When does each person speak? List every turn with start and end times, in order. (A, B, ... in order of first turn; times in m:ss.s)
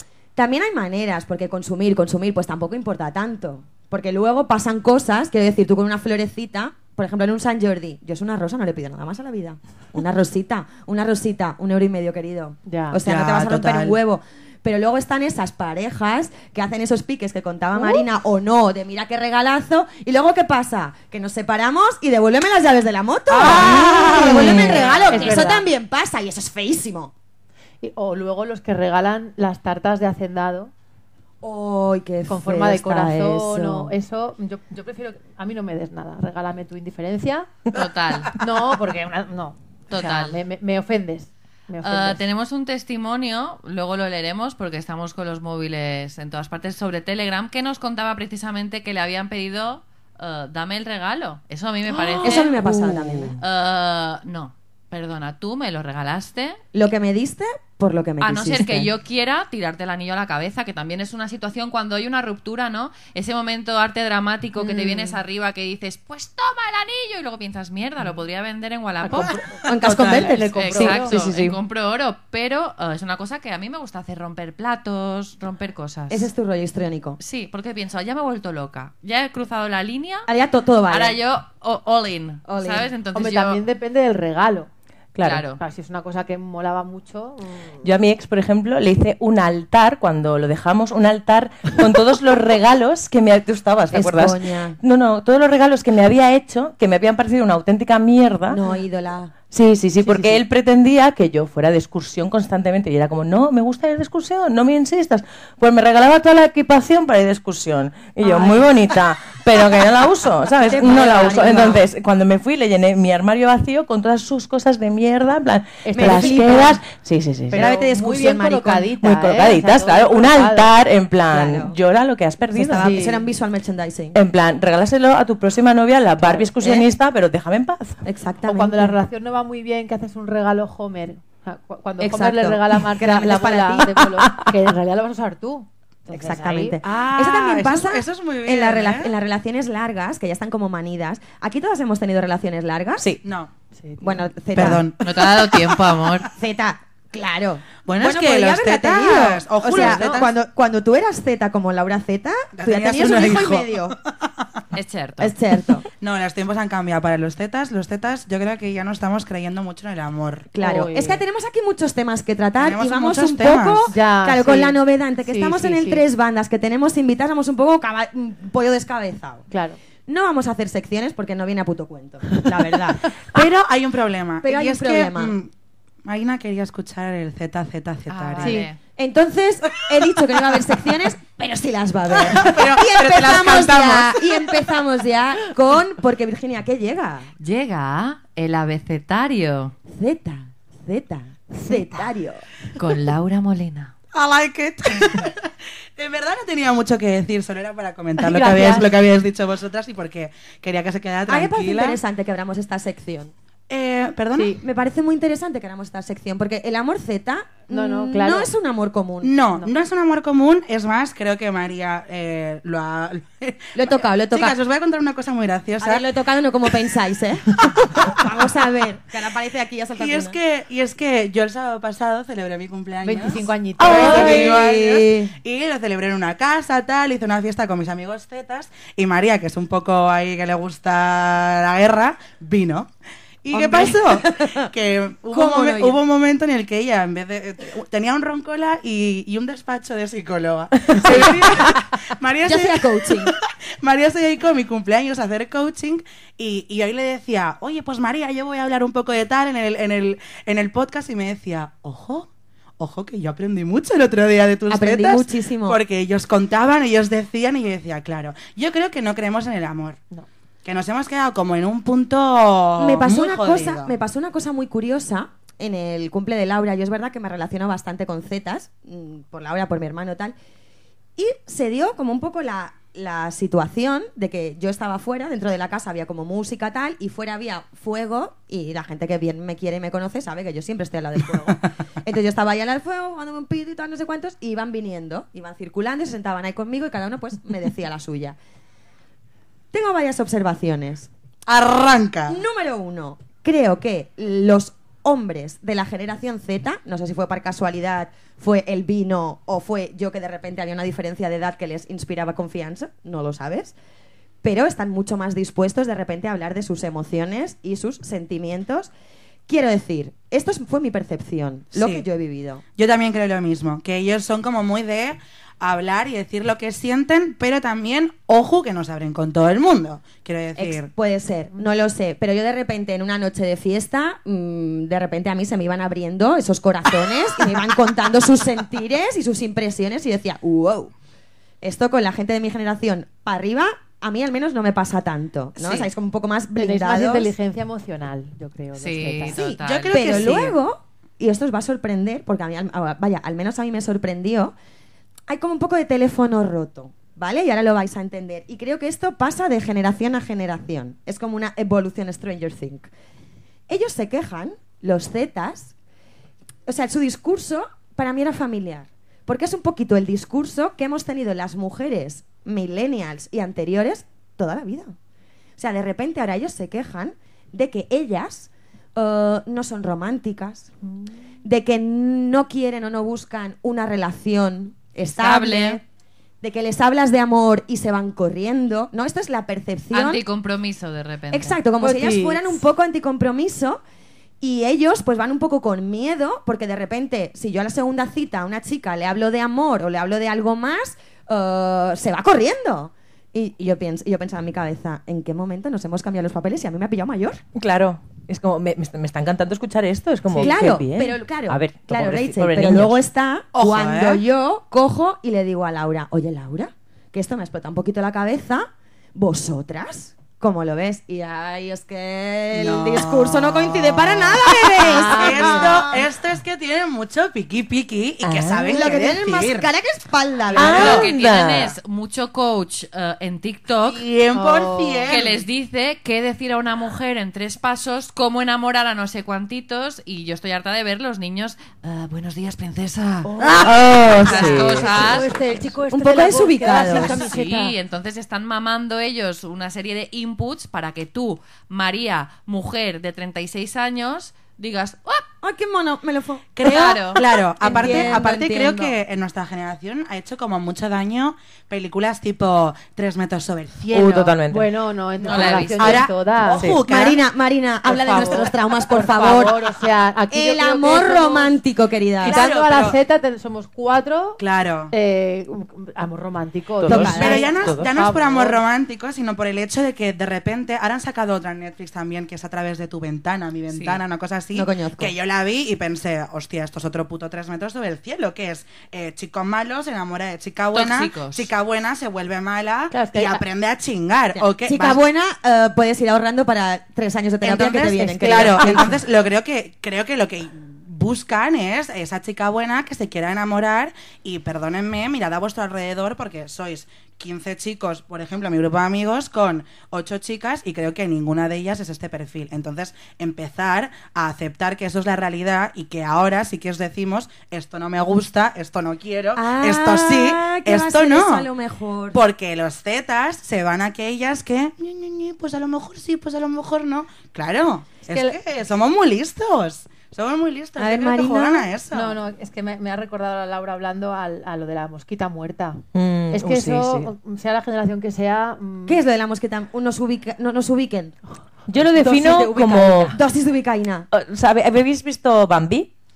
0:00.4-0:27.1 A
0:12.6-0:13.0 B
0:13.0-0:14.0 C
0:17.8-0:18.0 B
0:23.3-0:25.4 C
0:23.4-0:25.6 B
0:23.5-0:24.8 D
0:27.8-0:30.7 B
0:31.4-0:33.9 A
0:32.3-0:37.6 B
0:37.7-0:38.4 E
0:38.3-0:42.2 B
0:39.9-0:40.4 E
0:41.8-0:52.6 E
0:52.2-0:53.4 A
0:52.5-0:53.4 D
0:53.4-0:56.6 E
0:56.7-0:58.9 A
0:58.2-1:09.4 E
1:09.0-1:11.1 B
1:09.6-1:11.1 A
1:09.9-1:10.3 C
1:10.5-1:16.3 E
1:10.7-1:11.6 D
1:16.1-1:17.2 A
1:17.2-1:20.3 E
1:20.3-1:21.2 A
1:20.9-1:23.6 E
1:22.5-1:22.9 A
1:23.1-1:24.7 B
1:25.1-1:25.4 D
1:25.2-1:25.6 E
1:25.6-1:27.8 B
1:27.8-1:38.6 D
1:33.9-1:34.8 A
1:38.5-1:39.3 A
1:39.4-1:57.7 D
1:40.0-1:40.4 A
1:48.2-1:48.6 A
1:50.6-1:51.8 A
1:55.8-1:56.8 B
1:55.9-1:56.8 A
1:57.5-2:00.7 B
1:57.5-1:58.9 A
1:59.0-2:03.0 D
2:01.3-2:01.8 A
2:02.5-2:04.2 A
2:02.8-2:03.2 B
2:04.1-2:08.0 D
2:06.2-2:06.9 A
2:08.0-2:08.9 A
2:08.4-2:16.8 B
2:12.0-2:14.0 A
2:16.1-2:23.2 A
2:16.8-2:19.1 C
2:23.2-2:23.5 C
2:23.7-2:24.3 B
2:24.0-2:24.9 A
2:24.5-2:26.2 C
2:25.0-2:26.3 E
2:26.4-2:34.0 A
2:27.8-2:30.3 C
2:29.7-2:30.3 B
2:32.5-2:34.3 C
2:34.7-2:35.3 E
2:35.2-2:35.8 A
2:36.0-2:40.5 C
2:40.5-2:49.5 A
2:40.6-2:41.2 B
2:42.6-2:43.9 C
2:43.9-2:46.0 B
2:49.5-2:49.8 B
2:50.1-2:53.0 A
2:53.3-2:55.5 C
2:54.4-2:55.3 A
2:56.0-2:58.6 C
2:58.1-2:58.8 E
2:58.4-2:58.7 B
2:59.0-3:07.3 A
3:02.2-3:04.6 C
3:07.4-3:09.7 E
3:09.9-3:12.4 A
3:12.8-3:13.9 E
3:14.1-3:22.0 C
3:18.2-3:18.9 B
3:21.3-3:23.3 A
3:23.7-3:24.6 C
3:24.6-3:29.3 A
3:27.7-3:28.5 B
3:29.2-3:36.0 C
3:33.7-3:34.6 A
3:35.8-3:40.4 A
3:40.0-3:52.9 C
3:43.0-3:44.5 B
3:43.8-3:45.3 A
3:43.8-3:44.4 D
3:53.4-4:12.3 C
3:53.5-3:54.7 A
3:55.3-3:56.0 A
4:01.0-4:01.6 A
4:02.4-4:03.3 A
4:12.8-4:20.0 C
4:14.7-4:15.8 A
4:20.6-4:23.9 C
4:22.8-4:30.3 A
4:31.2-4:48.4 A
4:49.7-4:51.1 A
4:51.5-4:52.4 C
4:52.3-5:03.7 A
5:04.4-5:08.9 A
5:09.5-5:12.6 A
5:11.7-5:12.0 C
5:12.8-5:20.9 C
5:20.5-5:30.9 A
5:21.5-5:21.8 B
5:31.6-5:37.3 A
5:35.6-5:35.8 E
5:36.6-5:39.4 B
5:38.8-5:40.4 E
5:39.4-5:40.6 C
5:39.4-5:44.5 A
5:45.3-5:52.9 A
5:53.7-5:55.7 A
5:56.6-6:04.9 A
6:05.6-6:10.7 A
6:11.4-6:15.8 A
6:15.0-6:15.8 E
6:16.4-6:20.2 A
6:19.9-6:21.6 E
6:21.3-6:23.8 A
6:21.8-6:22.6 B
6:24.4-6:37.4 A
6:37.6-6:43.0 D
6:40.3-6:56.0 A
6:43.5-6:44.2 C
6:52.5-6:59.7 C
6:55.0-6:55.9 B
6:58.2-6:58.9 D
6:58.7-7:01.1 A
7:00.5-7:01.7 D
7:00.6-7:04.0 E
7:03.8-7:05.4 C
7:04.3-7:05.1 B
7:05.1-7:13.3 E
7:13.2-7:17.7 B
7:13.4-7:13.7 C
7:13.5-7:15.2 D
7:14.2-7:15.3 E
7:15.1-7:17.2 A
7:16.8-7:25.2 E
7:25.4-7:29.0 A
7:26.6-7:34.4 C
7:26.6-7:27.2 E
7:33.9-7:34.7 D
7:34.4-7:36.6 B
7:35.2-7:37.2 C
7:35.2-7:36.1 E
7:36.8-7:39.6 A
7:37.8-7:41.6 B
7:40.3-7:42.4 A
7:42.2-7:43.0 C
7:42.2-7:48.6 B
7:44.4-7:44.9 C
7:46.8-7:47.9 D
7:46.9-7:47.5 A
7:47.1-8:05.0 C
7:53.7-7:54.0 E
7:54.5-7:55.1 A
8:00.7-8:01.5 E
8:02.9-8:03.4 B
8:04.3-8:09.0 A
8:07.4-8:31.5 C
8:08.0-8:08.9 B
8:29.3-8:32.2 A
8:32.1-8:42.2 C
8:38.1-8:38.4 B
8:40.8-8:41.7 A
8:41.9-8:49.0 B
8:45.9-8:47.1 D
8:48.8-8:51.2 A
8:51.7-8:53.2 D
8:52.0-8:52.4 B
8:52.0-8:54.1 A
8:54.1-8:55.9 D